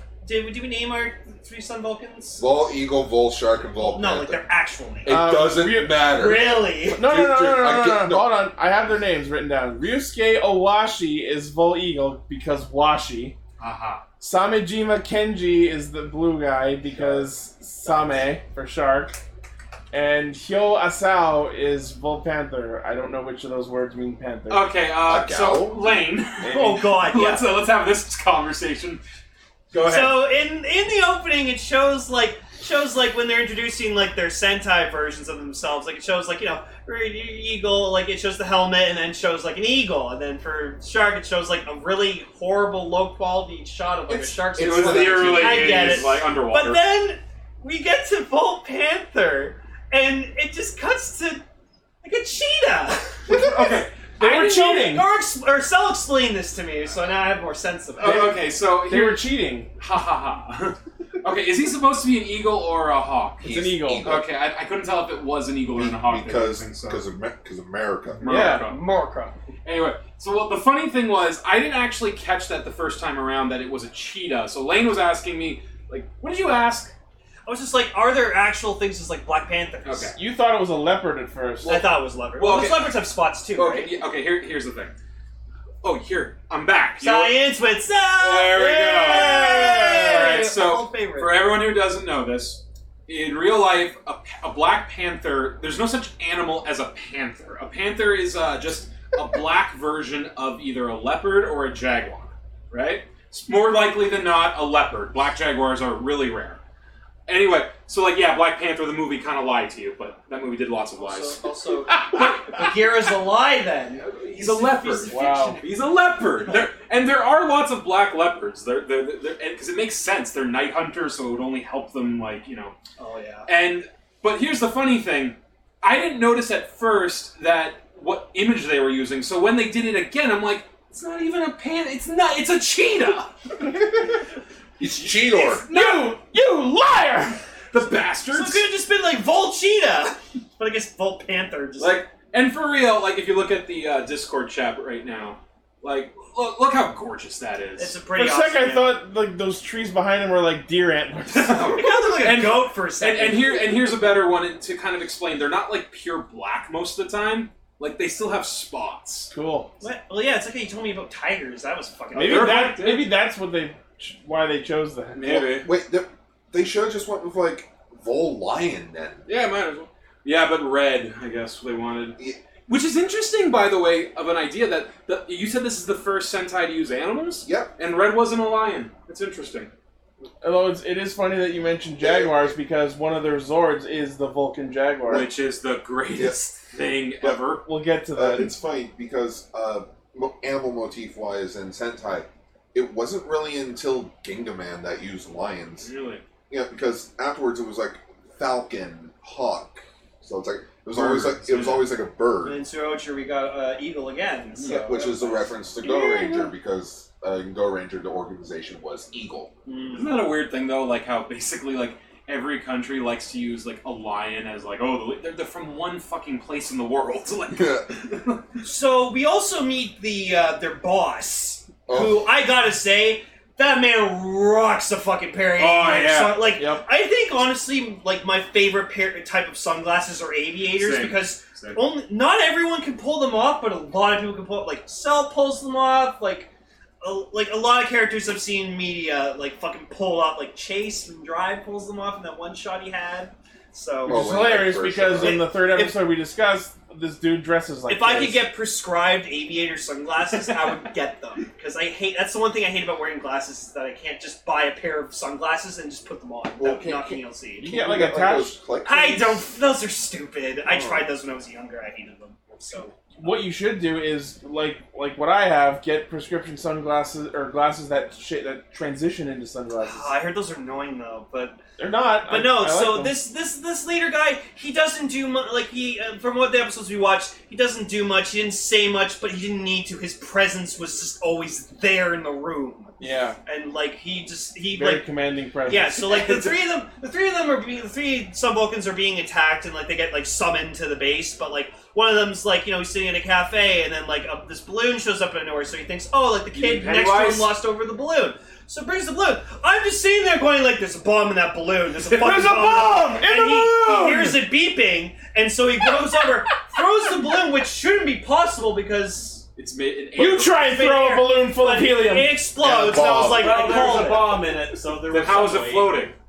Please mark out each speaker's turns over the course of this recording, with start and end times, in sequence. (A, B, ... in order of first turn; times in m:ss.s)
0:00.2-0:02.5 A
0:02.4-0:04.4 B
0:03.8-0:05.2 A
0:05.0-0:08.5 B
0:05.1-0:06.2 C
0:06.0-0:07.0 A
0:07.0-0:13.4 C
0:13.6-0:14.0 D
0:14.2-0:19.2 C
0:16.9-0:17.3 B
0:19.9-0:24.7 C
0:24.5-0:29.0 D
0:25.0-0:26.0 B
0:26.4-0:27.5 A
0:29.7-0:30.2 D
0:29.8-0:51.4 A
0:44.1-0:46.1 B
0:44.5-0:46.8 D
0:52.0-0:58.4 A
0:53.3-0:54.5 D
0:54.2-0:55.1 C
0:58.0-1:03.5 D
0:58.0-0:59.7 C
1:03.4-1:04.3 B
1:03.4-1:04.1 C
1:04.0-1:07.0 D
1:05.7-1:08.5 B
1:08.2-1:08.8 D
1:08.3-1:08.7 C
1:08.3-1:09.4 A
1:09.6-1:16.9 D
1:17.5-1:20.2 A
1:19.8-1:20.2 D
1:20.2-1:21.8 C
1:21.6-1:24.0 A
1:21.6-1:24.9 D
1:25.8-1:27.5 D
1:27.0-1:31.6 A
1:28.2-1:46.6 D
1:28.5-1:30.4 C
1:47.3-1:51.4 D
1:51.0-1:56.7 A
1:52.0-1:52.7 D
1:54.0-2:02.8 D
1:55.1-1:55.6 C
2:03.0-2:03.5 A
2:03.5-2:13.6 D
2:14.8-2:15.6 B
2:15.7-2:16.1 D
2:15.7-2:17.4 C
2:17.7-2:18.7 D
2:18.2-2:22.0 A
2:21.8-2:28.0 D
2:27.8-2:29.0 A
2:28.1-2:31.8 C
2:31.3-2:39.3 D
2:31.7-2:33.9 A
2:39.3-2:39.7 C
2:39.8-2:42.8 A
2:42.1-2:43.1 D
2:42.2-2:45.5 C
2:45.2-2:45.7 D
2:45.2-2:49.3 B
2:49.3-2:59.7 D
2:57.4-2:57.7 B
3:00.4-3:05.3 C
3:02.0-3:02.5 B
3:05.1-3:07.6 D
3:06.1-3:06.4 B
3:07.6-3:08.5 C
3:08.1-3:15.9 B
3:15.8-3:16.2 D
3:16.5-3:22.6 B
3:20.9-3:21.9 D
3:22.4-3:25.5 A
3:24.6-3:24.9 D
3:24.7-3:29.5 B
3:25.9-3:26.4 C
3:29.7-3:30.3 A
3:29.9-3:38.4 D
3:37.5-3:37.9 B
3:38.6-3:56.5 A
3:41.9-3:42.3 B
3:45.6-3:46.5 D
3:46.6-3:46.8 C
3:50.7-3:51.8 D
3:57.0-4:04.3 A
4:04.1-4:05.4 B
4:04.1-4:08.4 C
4:05.1-4:06.0 A
4:07.9-4:17.7 A
4:10.3-4:10.8 D
4:16.6-4:19.5 B
4:17.6-4:18.6 C
4:18.8-4:23.3 A
4:20.7-4:21.1 B
4:23.2-4:30.1 C
4:29.8-4:31.6 A
4:31.8-4:33.2 C
4:32.2-4:45.1 A
4:43.0-4:43.4 C
4:44.7-4:46.0 C
4:45.6-5:09.5 A
4:46.0-4:46.7 D
4:56.5-4:57.6 D
5:02.1-5:04.4 C
5:09.6-5:10.6 D
5:10.2-5:12.4 C
5:10.4-5:14.8 A
5:12.6-5:13.6 B
5:13.3-5:16.0 E
5:13.5-5:14.1 D
5:15.0-5:16.1 D